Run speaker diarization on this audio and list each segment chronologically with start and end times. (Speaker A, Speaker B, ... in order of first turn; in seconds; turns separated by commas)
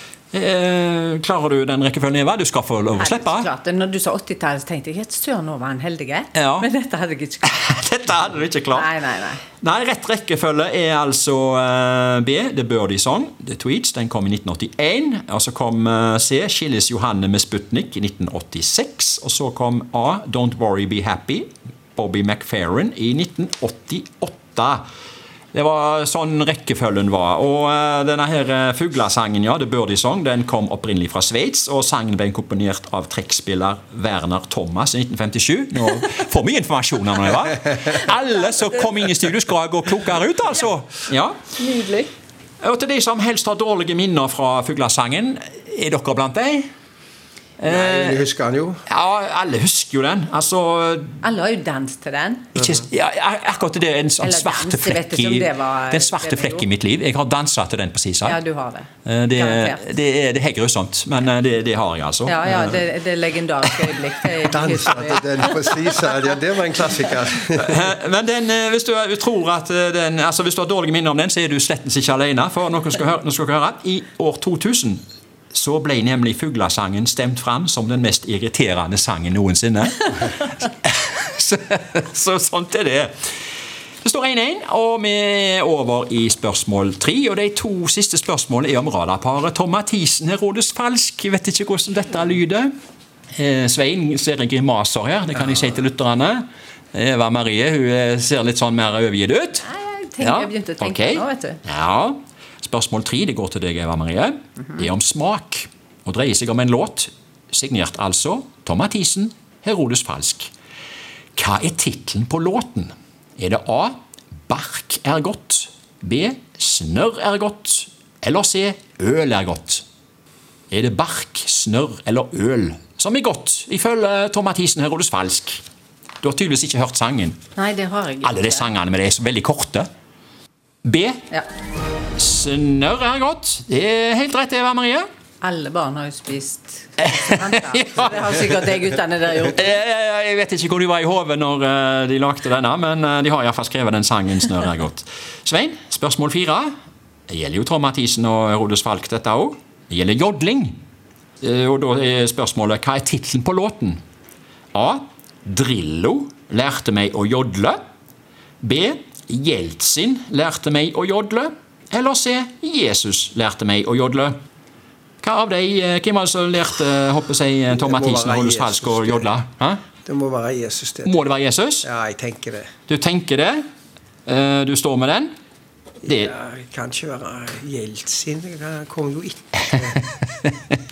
Speaker A: 0.3-3.5, Speaker B: 3.0-7.6, Speaker A: 6.3-6.7, Speaker A: 7.5-8.9, Speaker B: 8.7-9.4, Speaker A: 9.6-24.8, Speaker A: 25.5-41.4, Speaker B: 41.6-42.1, Speaker A: 42.6-46.7, Speaker A: 47.6-48.3, Speaker C: 47.7-48.8, Speaker A: 48.9-51.2, Speaker B: 51.2-52.5, Speaker A: 52.5-58.4, Speaker B: 54.2-56.7, Speaker B: 58.2-59.8, Speaker A: 59.1-62.7, Speaker B: 62.3-65.8, Speaker C: 62.5-62.7, Speaker C: 64.5-67.8, Speaker A: 67.5-75.0, Speaker A: 75.5-83.1, Speaker A: 84.0-92.7, Speaker A: 93.3-99.7, Speaker B: 99.6-101.6, Speaker A: 100.2-110.5, Speaker A: 111.4-114.0, Speaker A: 114.5-119.8, Speaker A: 120.7-125.6, Speaker A: 126.2-127.4, Speaker B: 127.6-128.7, Speaker A: 128.2-129.9, Speaker A: 130.8-131.2, Speaker A: 132.2-135.1, Speaker B: 135.4-139.8, Speaker A: 137.0-138.5, Speaker A: 139.5-146.7, Speaker A: 147.3-150.7, Speaker A: 151.4-154.0, Speaker A: 154.7-157.8, Speaker A: 158.6-164.4, Speaker A: 165.2-169.8, Speaker C: 167.7-169.3, Speaker C: 170.0-171.2, Speaker A: 171.1-171.9, Speaker C: 171.8-172.7, Speaker A: 172.9-173.6, Speaker A: 174.3-175.3, Speaker A: 176.0-176.3, Speaker C: 176.0-180.0